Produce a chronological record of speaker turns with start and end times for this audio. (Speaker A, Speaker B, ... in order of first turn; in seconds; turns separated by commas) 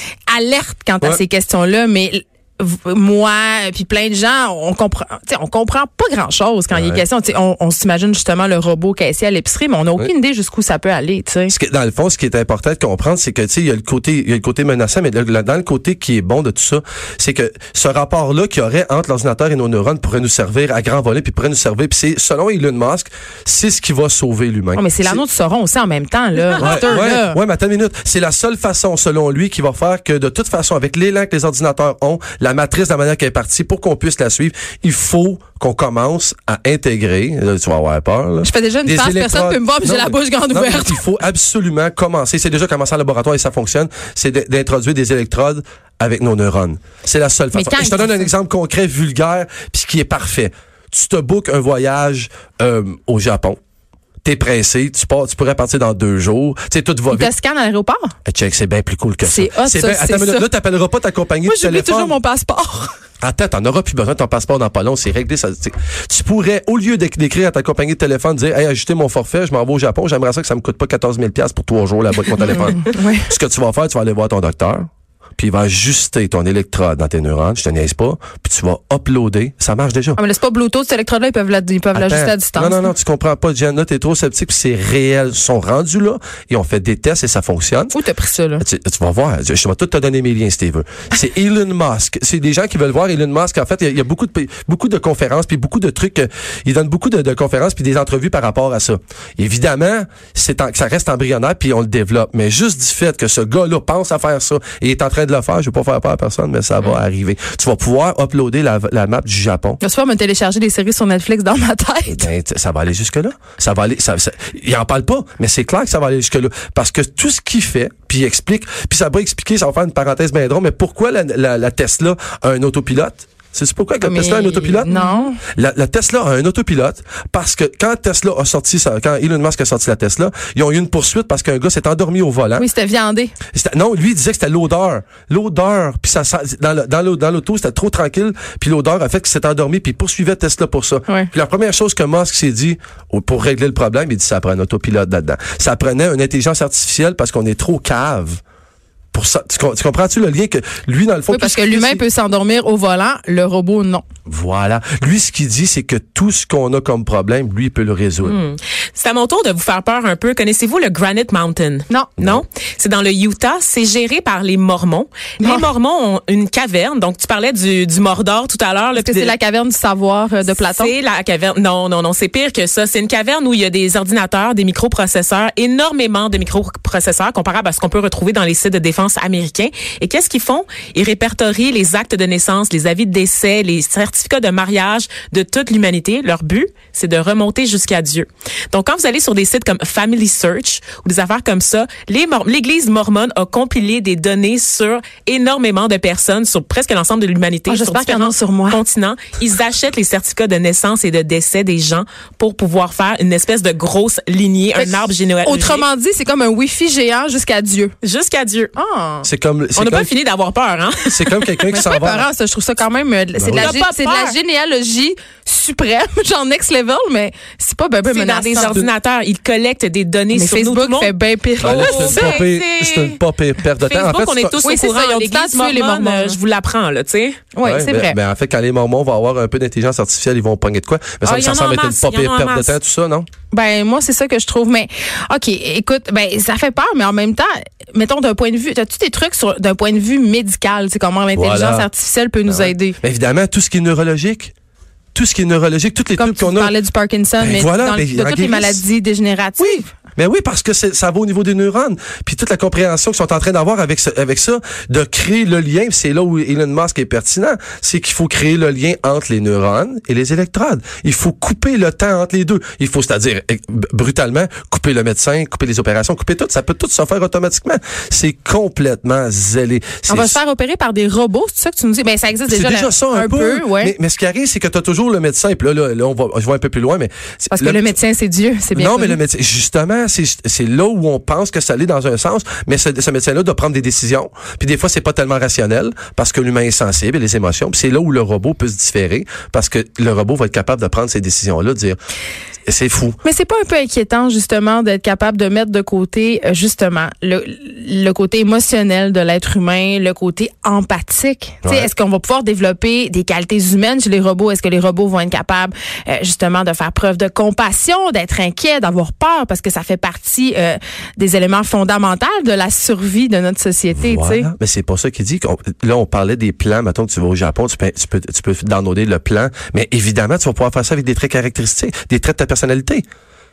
Speaker A: 0.3-11.5, Speaker B: 6.7-7.0, Speaker B: 11.5-25.2, Speaker A: 24.8-27.4, Speaker B: 26.6-53.6, Speaker A: 38.4-41.0, Speaker A: 47.5-48.3, Speaker B: 54.2-57.3, Speaker A: 57.1-58.1, Speaker B: 58.3-62.1, Speaker A: 59.2-60.5, Speaker A: 61.5-62.9, Speaker B: 63.2-80.2, Speaker A: 72.5-73.3, Speaker A: 80.2-82.9, Speaker B: 81.9-88.0, Speaker A: 87.9-88.7, Speaker B: 88.6-109.8, Speaker A: 109.8-112.3, Speaker B: 112.1-132.7, Speaker A: 124.0-125.4, Speaker A: 132.6-133.3, Speaker B: 133.5-148.4, Speaker B: 149.1-152.0, Speaker A: 151.3-154.1, Speaker B: 154.3-158.4, Speaker C: 158.2-169.3, Speaker B: 162.2-162.4, Speaker A: 169.0-170.9, Speaker C: 170.5-205.8, Speaker A: 197.7-198.8, Speaker A: 204.8-207.9, Speaker C: 208.0-208.7, Speaker A: 208.8-209.3, Speaker B: 209.2-210.1, Speaker C: 209.8-211.7, Speaker B: 211.1-212.3, Speaker A: 211.7-218.8, Speaker B: 213.4-213.7, Speaker C: 213.5-214.4, Speaker C: 218.1-223.2, Speaker B: 218.6-218.9, Speaker A: 220.3-222.4, Speaker B: 221.6-224.6, Speaker C: 223.8-227.4, Speaker A: 224.6-226.4, Speaker A: 227.6-228.2, Speaker B: 227.6-233.3, Speaker C: 231.2-232.7, Speaker A: 233.5-243.0, Speaker B: 241.3-241.9, Speaker B: 242.5-244.5, Speaker B: 245.2-246.8, Speaker A: 246.2-249.9, Speaker B: 247.4-248.8, Speaker B: 249.6-270.4, Speaker A: 270.1-273.9, Speaker B: 272.5-277.9, Speaker A: 277.5-279.2, Speaker B: 278.8-292.0, Speaker B: 292.7-293.2, Speaker A: 293.2-314.5, Speaker B: 301.6-301.9, Speaker B: 313.9-323.1